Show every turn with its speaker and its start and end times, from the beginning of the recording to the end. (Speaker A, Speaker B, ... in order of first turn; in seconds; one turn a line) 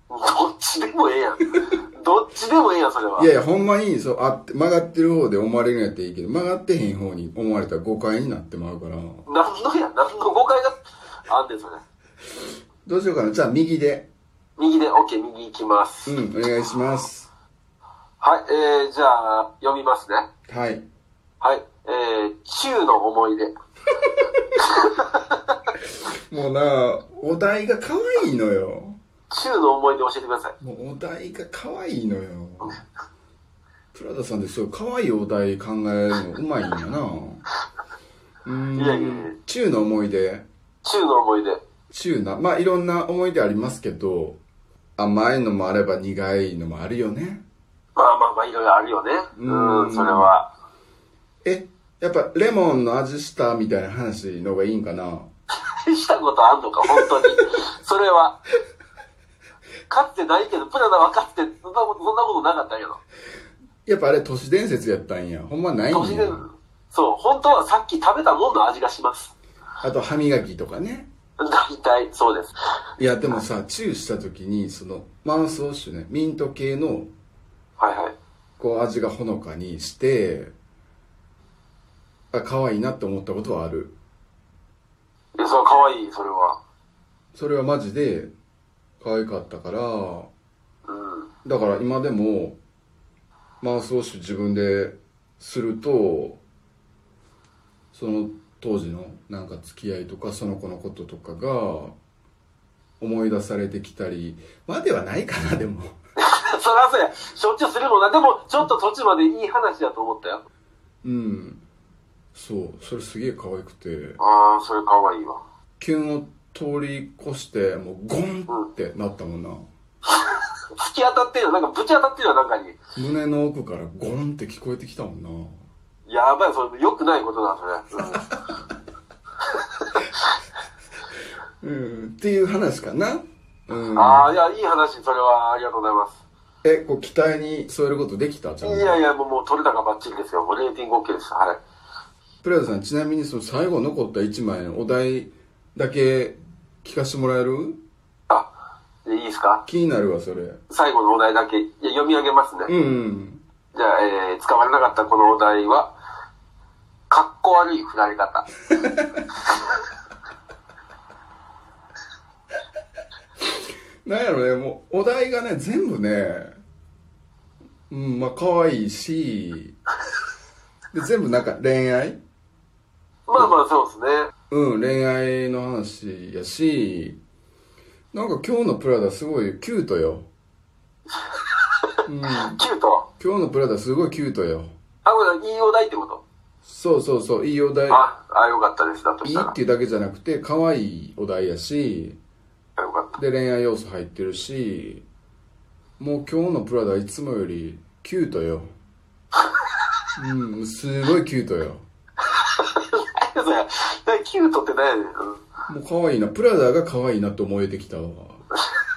Speaker A: 0.1-3.3
Speaker B: 3.2-9.2
Speaker A: 9.2-11.8
Speaker B: 12.8-14.1
Speaker A: 14.6-16.1
Speaker B: 16.1-17.3
Speaker A: 18.2-20.3
Speaker B: 20.5-20.8
Speaker A: 21.4-23.5
Speaker A: 24.6-25.6
Speaker B: 26.3-29.0
Speaker A: 29.3-30.5
Speaker B: 30.6-32.8
Speaker B: 33.9-37.4
Speaker B: 38.4-40.4
Speaker A: 38.8-39.3
Speaker A: 40.8-41.6
Speaker B: 41.9-44.4
Speaker B: 45.0-47.4
Speaker A: 48.0-50.5
Speaker B: 49.3-50.3
Speaker B: 51.4-55.3
Speaker A: 55.6-58.4
Speaker A: 59.9-63.0
Speaker B: 63.9-66.4
Speaker A: 65.9-69.3
Speaker B: 69.8-71.1
Speaker A: 71.4-72.5
Speaker B: 73.0-77.1
Speaker A: 77.8-78.2
Speaker B: 78.6-80.5
Speaker B: 82.3-83.9
Speaker A: 85.4-86.6
Speaker B: 87.3-88.3
Speaker B: 89.0-90.3
Speaker A: 90.9-91.3
Speaker B: 91.4-92.6
Speaker B: 93.6-96.4
Speaker B: 97.9-101.9
Speaker B: 103.0-105.9
Speaker A: 106.2-110.4
Speaker B: 111.0-111.6
Speaker B: 112.3-114.2
Speaker A: 114.2-115.4
Speaker B: 115.8-119.6
Speaker A: 120.8-122.8
Speaker B: 123.0-125.6
Speaker A: 126.1-128.3
Speaker A: 129.5-130.1
Speaker B: 131.6-134.3
Speaker A: 133.9-136.2
Speaker B: 136.6-139.0
Speaker A: 138.6-141.6
Speaker B: 142.4-147.8
Speaker A: 149.0-149.6
Speaker B: 149.7-150.6
Speaker A: 150.7-152.7
Speaker B: 152.7-153.4
Speaker A: 153.7-155.9
Speaker A: 157.1-158.5
Speaker B: 164.0-166.6
Speaker B: 167.9-169.8
Speaker B: 170.9-172.2
Speaker A: 173.3-174.3
Speaker B: 174.5-177.2
Speaker B: 178.1-180.2
Speaker B: 182.1-182.6
Speaker A: 182.5-183.1
Speaker B: 183.2-184.7
Speaker A: 185.0-186.2
Speaker B: 186.6-188.0
Speaker A: 187.9-189.5
Speaker B: 189.2-192.2
Speaker A: 192.8-193.2
Speaker B: 193.2-195.0
Speaker B: 196.0-198.7
Speaker B: 200.2-201.8
Speaker A: 202.3-205.4
Speaker B: 205.7-208.4